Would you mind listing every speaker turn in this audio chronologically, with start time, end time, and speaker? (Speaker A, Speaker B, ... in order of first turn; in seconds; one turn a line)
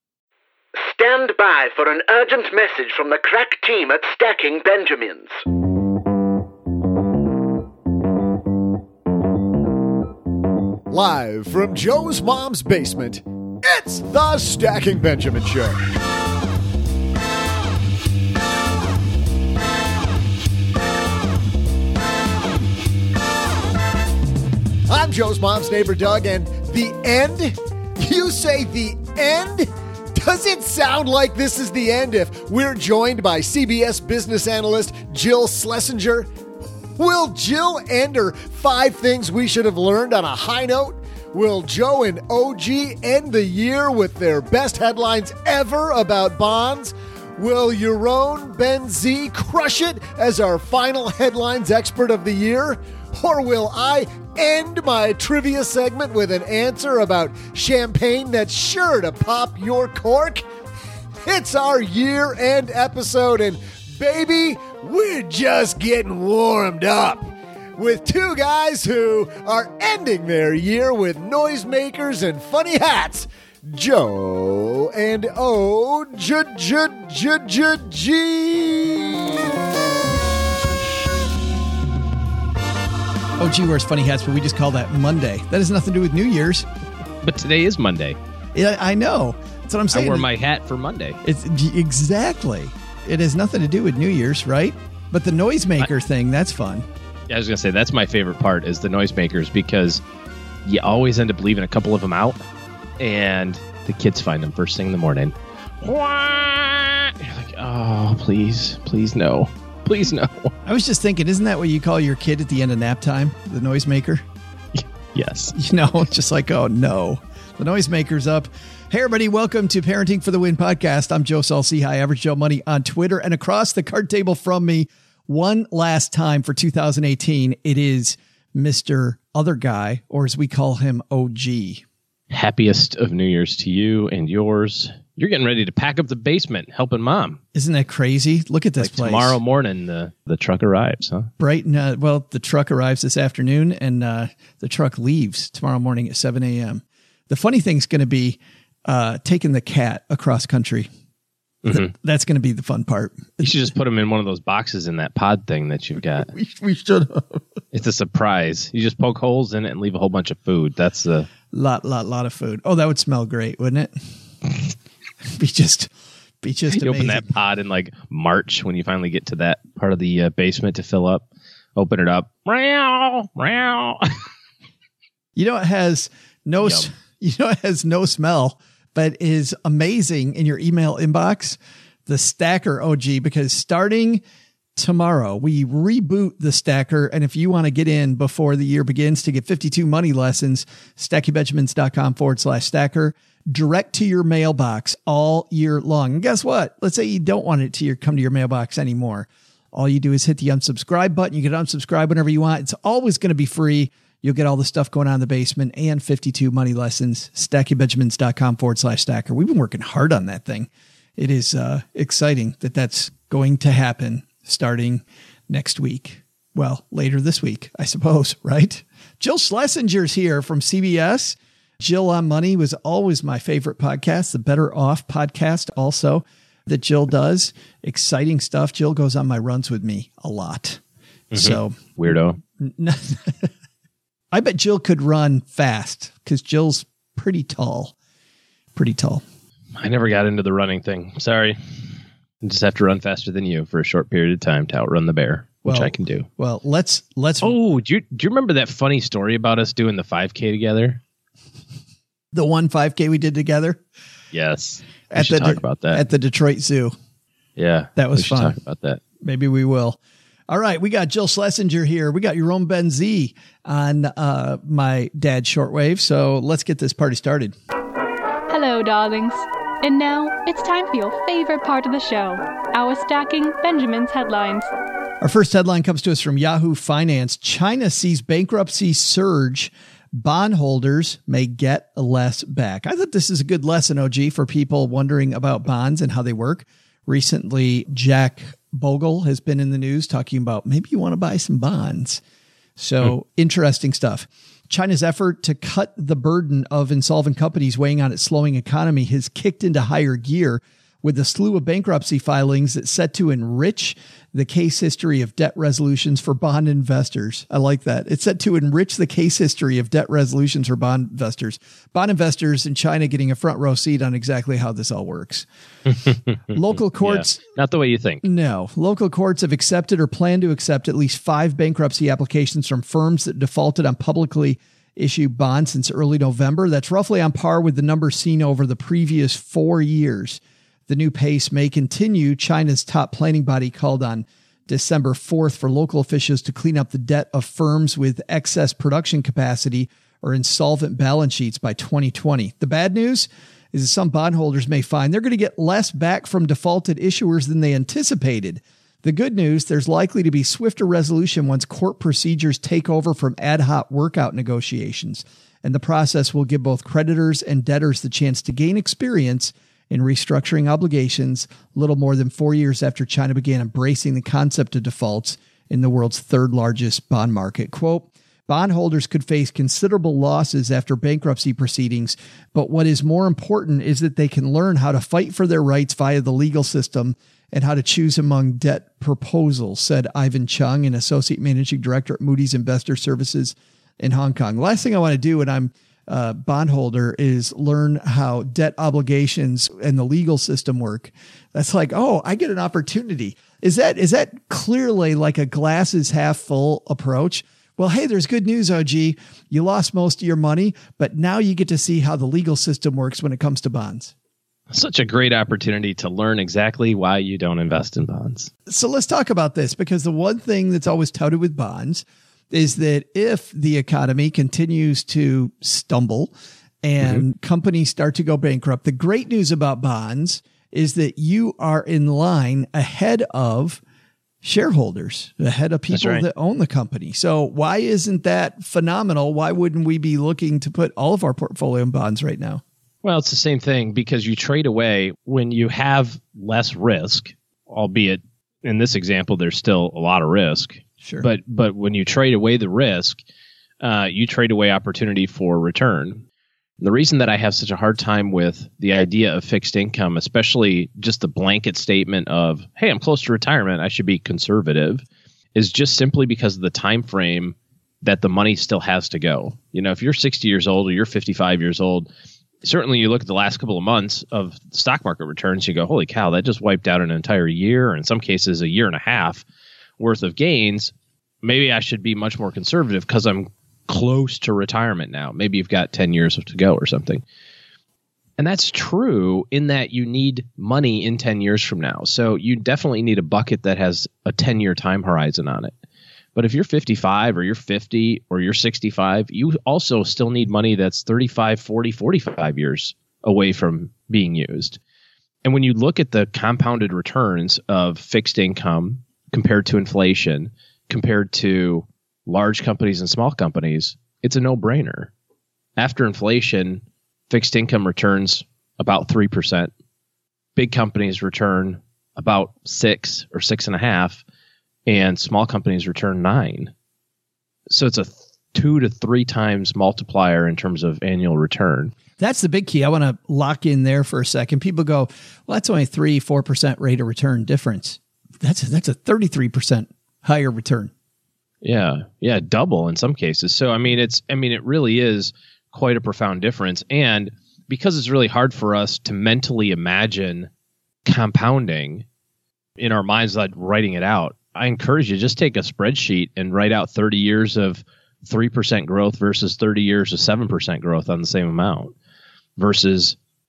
Speaker A: 0.8-5.4
Speaker B: 10.9-15.8
Speaker B: 24.9-36.3
Speaker B: 37.0-60.5
Speaker B: 61.2-79.4
Speaker C: 83.4-86.7
Speaker D: 87.2-88.2
Speaker C: 88.5-90.2
Speaker D: 89.9-91.2
Speaker C: 91.2-96.8
Speaker D: 97.3-100.0
Speaker D: 100.7-102.4
Speaker D: 103.0-110.5
Speaker C: 110.7-114.2
Speaker D: 114.8-115.5
Speaker C: 115.5-131.8
Speaker D: 132.3-137.4
Speaker C: 137.6-139.4
Speaker D: 138.8-141.3
Speaker C: 141.4-150.9
Speaker C: 151.7-153.5
Speaker D: 153.4-156.3
Speaker C: 156.3-157.4
Speaker D: 157.7-161.3
Speaker C: 161.5-163.9
Speaker C: 165.3-165.9
Speaker C: 166.4-167.3
Speaker D: 166.7-171.2
Speaker D: 171.8-174.1
Speaker C: 175.4-184.2
Speaker D: 176.6-176.9
Speaker C: 184.8-230.8
Speaker D: 231.3-232.4
Speaker C: 231.3-233.5
Speaker C: 234.3-237.9
Speaker C: 238.8-239.2
Speaker D: 239.8-241.6
Speaker D: 242.4-246.3
Speaker C: 245.7-247.6
Speaker D: 247.4-251.0
Speaker C: 252.3-253.8
Speaker D: 254.3-256.0
Speaker C: 255.1-256.9
Speaker D: 257.6-259.0
Speaker C: 258.0-258.6
Speaker C: 259.2-260.0
Speaker C: 260.5-267.5
Speaker E: 268.5-274.7
Speaker C: 275.2-292.2
Speaker C: 292.8-315.5
Speaker C: 316.5-317.4
Speaker D: 317.0-318.2
Speaker C: 318.2-404.1
Speaker D: 404.7-408.5
Speaker C: 408.7-416.3
Speaker C: 416.8-423.8
Speaker C: 424.4-432.6
Speaker D: 425.9-426.2
Speaker D: 433.0-443.2
Speaker D: 443.8-446.2
Speaker D: 446.8-455.0
Speaker D: 455.6-462.1
Speaker D: 462.6-469.4
Speaker D: 470.0-470.9
Speaker D: 471.4-477.2
Speaker D: 478.4-485.7
Speaker D: 486.4-494.8
Speaker D: 495.4-505.1
Speaker D: 505.8-509.7
Speaker D: 510.6-514.2
Speaker D: 514.9-516.7
Speaker D: 517.7-522.0
Speaker C: 522.2-530.9
Speaker D: 531.6-540.5
Speaker D: 541.1-542.0
Speaker D: 542.8-551.9
Speaker D: 552.6-553.2